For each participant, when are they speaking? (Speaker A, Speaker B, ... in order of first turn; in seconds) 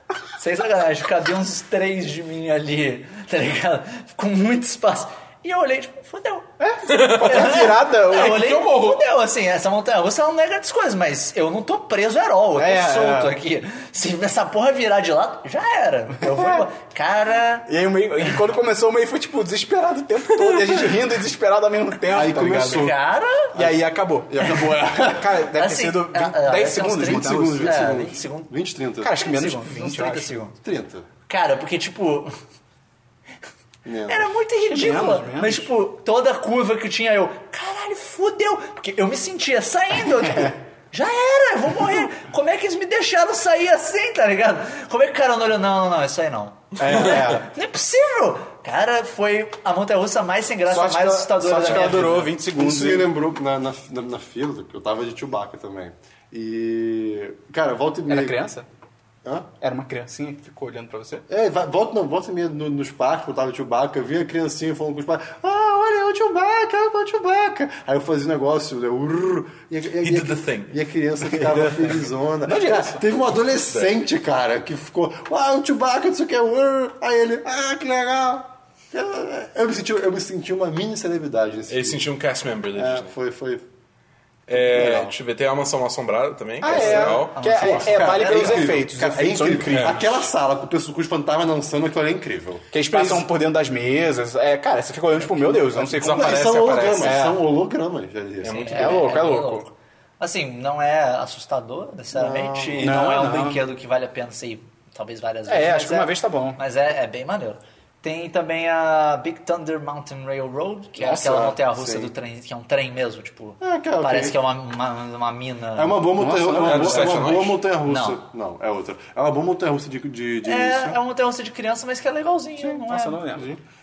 Speaker A: 0.4-6.5, 7.1-17.7, 22.6-23.5, 25.5-28.5, 29.1-30.6, 31.3-32.3, 34.1-52.3, 86.7-88.8, 98.6-116.1, 117.8-118.2, 120.5-123.3
Speaker B: 6.6-8.5, 12.6-13.4, 16.2-16.7, 17.7-22.9, 23.5-27.9, 29.0-30.4, 34.6-35.7, 40.2-40.5, 46.8-47.5, 50.7-53.1, 58.1-58.7, 59.6-61.3, 71.3-73.0, 86.6-90.3, 92.7-97.4, 98.7-99.7, 102.8-103.6, 105.5-106.6, 111.0-111.4, 116.2-117.4, 122.6-123.6
Speaker C: 6.9-9.0, 70.0-70.8, 73.7-74.0, 81.7-83.1, 84.5-87.6, 89.7-90.0, 95.9-97.2, 98.4-99.0, 116.6-117.6
Speaker D: 22.1-23.0, 24.3-25.3, 26.9-29.2, 30.6-31.1, 33.9-34.3, 51.7-58.4, 61.3-82.0, 82.8-83.7, 84.5-85.1, 86.7-93.2, 95.3-99.0, 102.1-103.0, 111.0-112.1, 113.6-114.4, 115.8-121.0